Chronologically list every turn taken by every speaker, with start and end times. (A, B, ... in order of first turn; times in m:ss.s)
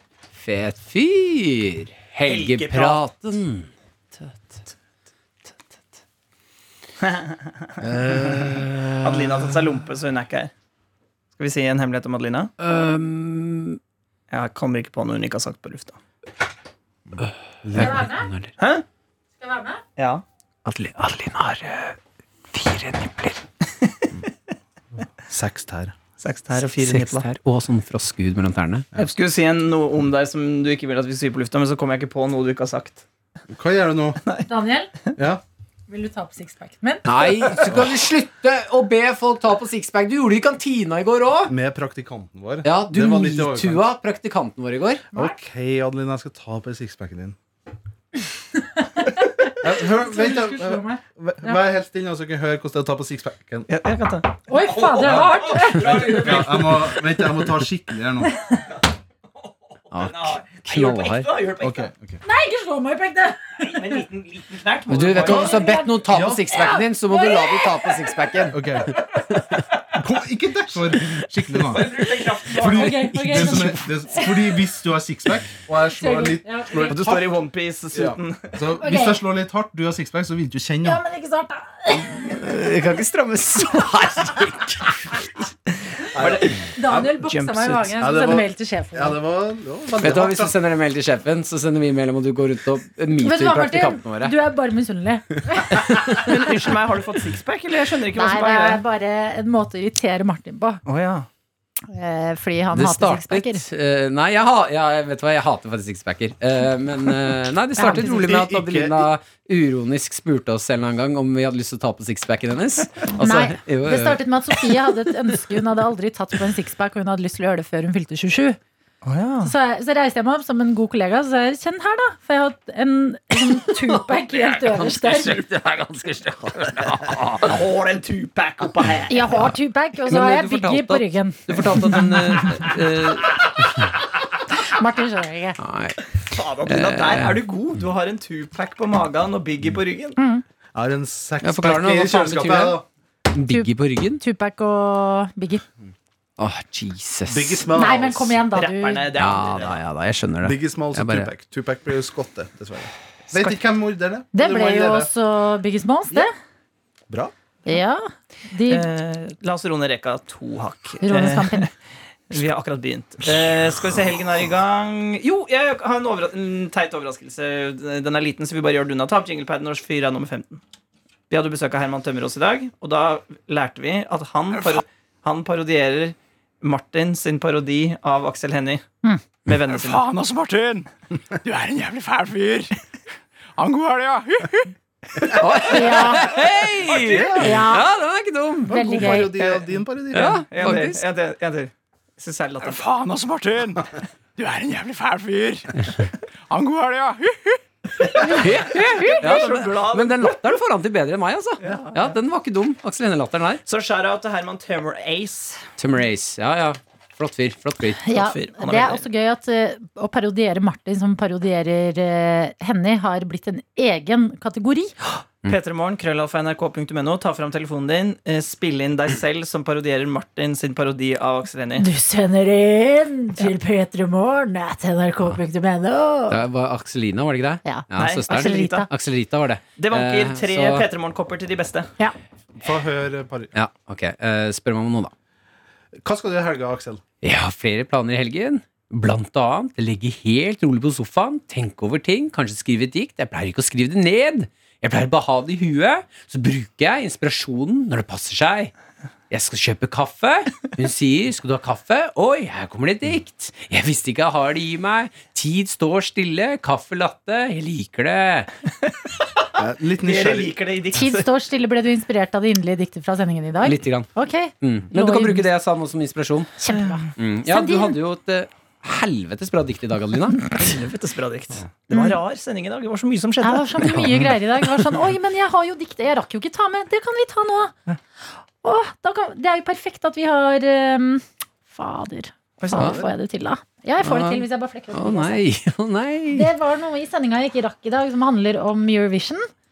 0:00.3-0:03.7 A
0:02.2-0:03.0 B
0:07.0-0:07.7 B
0:07.8-0:09.6 A
0:09.0-0:10.5 B
0:11.4-0:12.5 B
0:12.6-0:13.8 A
0:14.3-0:16.0 B
0:17.2-0:18.5 A
0:17.6-0:18.0 C
0:17.8-0:18.3 D
0:18.6-0:18.8 B
0:19.4-0:19.8 D
0:20.0-0:20.2 B
0:20.6-0:22.0 A
0:22.5-0:23.4 A
0:25.3-0:25.9 C
0:26.2-0:27.2 B
0:26.6-0:28.8 A
0:28.9-0:33.0 B
0:33.5-0:34.2 C
0:34.4-0:34.9 D
0:35.2-0:35.4 C
0:35.9-0:37.1 D
0:37.0-0:41.5 A
0:41.5-0:43.8 C
0:42.6-0:45.0 A
0:45.1-0:47.4 C
0:48.8-0:51.6 D
0:49.5-0:53.7 C
0:53.7-0:57.0 B
0:54.5-0:56.4 D
0:55.1-0:58.4 C
0:58.3-0:58.6 D
0:59.9-1:01.9 B
0:59.9-1:01.3 A
1:01.6-1:02.2 C
1:02.2-1:04.0 D
1:03.6-1:05.5 B
1:04.9-1:09.6 A
1:05.1-1:06.6 C
1:05.2-1:06.0 D
1:06.5-1:07.9 D
1:08.5-1:08.9 C
1:09.9-1:17.4 C
1:11.6-1:13.1 B
1:12.6-1:14.5 D
1:13.3-1:13.6 A
1:15.9-1:17.0 D
1:16.8-1:18.6 B
1:17.9-1:21.0 C
1:18.8-1:19.2 D
1:20.8-1:22.3 D
1:22.3-1:25.2 A
1:26.1-1:27.2 C
1:26.2-1:26.7 B
1:26.7-1:29.2 D
1:27.2-1:27.8 B
1:27.9-1:30.5 C
1:30.0-1:34.3 A
1:33.2-1:36.4 D
1:36.2-1:38.8 B
1:38.1-1:40.8 D
1:40.8-1:41.3 B
1:41.9-1:43.6 D
1:42.7-1:54.6 A
1:47.8-1:48.2 D
1:48.0-1:49.0 C
1:53.2-1:58.6 D
1:59.0-1:59.5 B
1:59.4-2:05.4 D
2:03.5-2:07.6 A
2:07.4-2:09.2 B
2:09.1-2:12.2 D
2:10.0-2:13.4 A
2:12.3-2:13.5 B
2:14.6-2:15.6 D
2:15.6-2:17.4 A
2:16.3-2:20.2 B
2:20.2-2:20.4 D
2:20.7-2:22.8 C
2:21.4-2:22.8 A
2:23.3-2:24.2 A
2:23.5-2:25.6 D
2:26.4-2:27.7 A
2:27.3-2:28.4 C
2:27.7-2:29.1 D
2:28.5-2:29.8 B
2:29.2-2:31.3 A
2:30.4-2:35.1 C
2:33.3-2:33.6 B
2:34.3-2:36.3 D
2:37.6-2:38.9 D
2:38.7-2:41.7 B
2:41.0-2:41.7 D
2:42.3-2:50.6 B
2:51.3-2:58.8 B
2:54.5-2:54.8 E
2:59.4-3:00.0 B
2:59.5-3:00.9 E
3:01.4-3:02.8 E
3:03.6-3:04.7 E
3:05.3-3:08.8 A
3:05.6-3:06.3 D
3:06.8-3:07.3 B
3:06.9-3:07.7 C
3:07.3-3:07.8 D
3:08.7-3:10.4 C
3:08.7-3:09.5 D
3:09.4-3:09.6 B
3:10.1-3:11.0 A
3:10.5-3:12.8 B
3:12.6-3:17.6 E
3:18.0-3:20.6 B
3:18.2-3:19.2 D
3:18.3-3:23.6 A
3:21.6-3:22.1 B
3:23.6-3:25.6 B
3:25.8-3:28.0 A
3:28.0-3:34.9 D
3:28.1-3:29.0 B
3:35.4-3:41.9 B
3:41.8-3:46.4 D
3:46.3-3:50.9 A
3:47.6-3:48.9 D
3:48.0-3:48.9 B
3:49.8-3:51.9 B
3:52.6-3:53.5 C
3:53.5-3:55.1 A
3:56.0-3:57.0 C
3:57.2-4:08.7 A
4:09.3-4:18.5 A
4:19.6-4:20.5 C
4:20.0-4:21.3 B
4:20.9-4:25.5 D
4:23.6-4:24.1 A
4:24.6-4:26.6 A
4:26.6-4:28.0 D
4:27.2-4:30.4 A
4:30.5-4:34.0 B
4:33.4-4:37.7 D
4:38.6-4:45.4 D
4:42.6-4:43.0 B
4:42.8-4:43.0 A
4:42.8-4:43.0 C
4:44.0-4:46.5 A
4:46.3-4:49.5 D